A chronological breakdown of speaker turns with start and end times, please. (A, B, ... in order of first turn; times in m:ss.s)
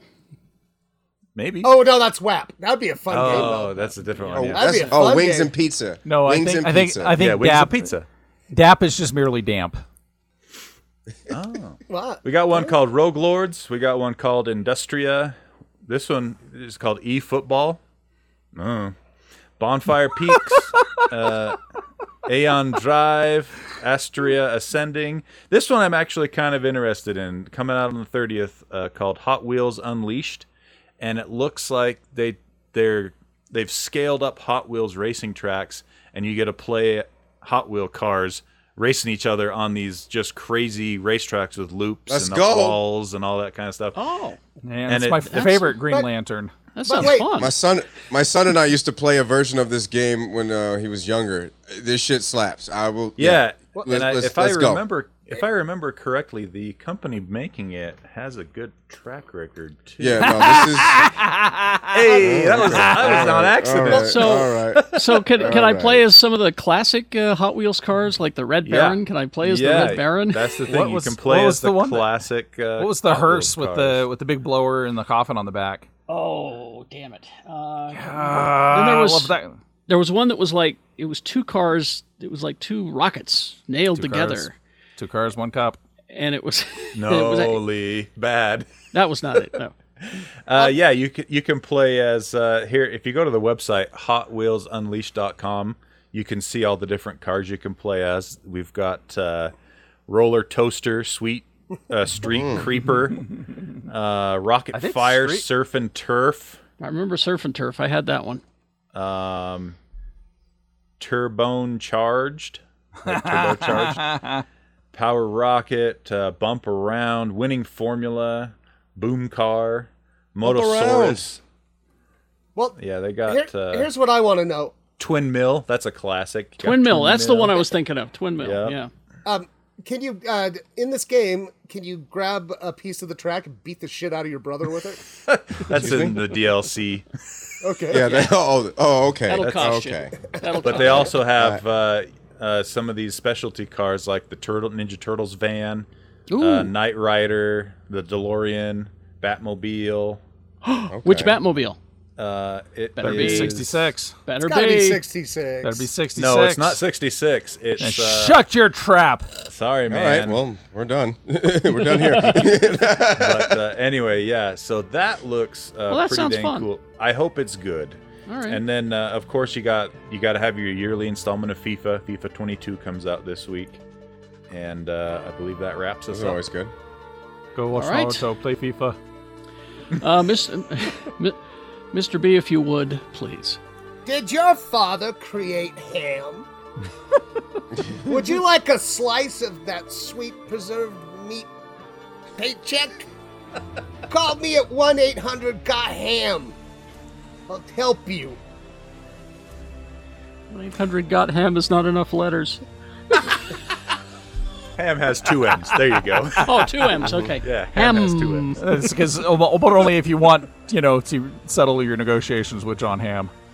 0:01.4-0:01.8 A
0:01.6-0:05.5 B
0:03.1-0:05.1 A
0:04.3-0:07.2 C
0:06.0-0:07.9 D
0:07.2-0:08.1 A
0:08.5-0:09.8 D
0:11.3-0:17.8 A
0:11.9-0:12.7 B
0:18.6-0:19.0 A
0:19.6-0:21.6 A
0:22.3-0:30.5 A
0:31.0-0:44.0 A
0:42.1-0:42.8 C
0:44.0-0:44.4 E
0:44.6-0:46.5 D
0:44.9-0:45.4 A
0:45.3-0:45.8 E
0:46.7-0:47.5 E
0:46.8-0:47.5 B
0:47.3-0:54.8 C
0:53.2-1:00.4 A
1:00.0-1:01.1 C
1:00.3-1:01.9 D
1:01.9-1:04.4 A
1:02.2-1:06.0 C
1:02.7-1:03.0 D
1:03.9-1:10.5 E
1:08.6-1:14.0 A
1:10.7-1:12.2 D
1:12.8-1:15.9 D
1:16.1-1:19.3 E
1:17.9-1:19.6 D
1:19.9-1:24.5 E
1:23.9-1:25.8 D
1:26.1-1:27.6 E
1:27.0-1:28.7 A
1:28.9-1:29.7 E
1:30.4-1:39.5 A
1:40.1-1:43.2 A
1:43.9-1:46.6 A
1:44.7-1:45.4 D
1:46.8-1:48.4 E
1:48.9-1:49.8 A
1:51.0-1:54.1 A
1:53.0-1:54.4 D
1:54.9-2:01.4 A
2:00.4-2:01.2 B
2:02.6-2:04.8 B
2:02.8-2:03.9 A
2:05.0-2:07.6 A
2:06.6-2:08.9 E
2:08.4-2:08.8 A
2:09.2-2:15.0 B
2:15.3-2:17.1 A
2:15.7-2:16.2 C
2:17.6-2:18.1 B
2:17.9-2:20.2 C
2:19.3-2:21.1 E
2:19.4-2:19.8 A
2:20.4-2:20.7 B
2:20.6-2:25.9 A
2:20.8-2:21.6 C
2:26.3-2:26.7 E
2:26.4-2:30.2 A
2:30.6-2:31.8 E
2:30.9-2:31.4 C
2:32.2-2:33.8 A
2:33.0-2:33.6 E
2:33.0-2:34.2 D
2:34.3-2:35.0 E
2:34.4-2:35.9 B
2:35.6-2:36.8 D
2:36.2-2:38.4 A
2:37.8-2:39.3 D
2:39.4-2:40.4 A
2:39.9-2:43.6 C
2:41.9-2:42.5 E
2:43.2-2:53.8 A
2:45.9-2:46.7 E
2:48.3-2:48.6 E
2:54.5-2:56.4 A
2:56.1-2:56.7 C
2:57.6-2:59.0 D
2:57.8-2:58.2 E
3:00.0-3:01.4 E
3:01.9-3:03.6 E
3:04.0-3:06.5 B
3:08.0-3:11.5 B
3:12.4-3:13.1 B
3:14.1-3:16.6 B
3:17.5-3:18.4 B
3:20.5-3:22.6 E
3:24.8-3:28.5 A
3:26.4-3:28.7 E
3:28.6-3:33.3 D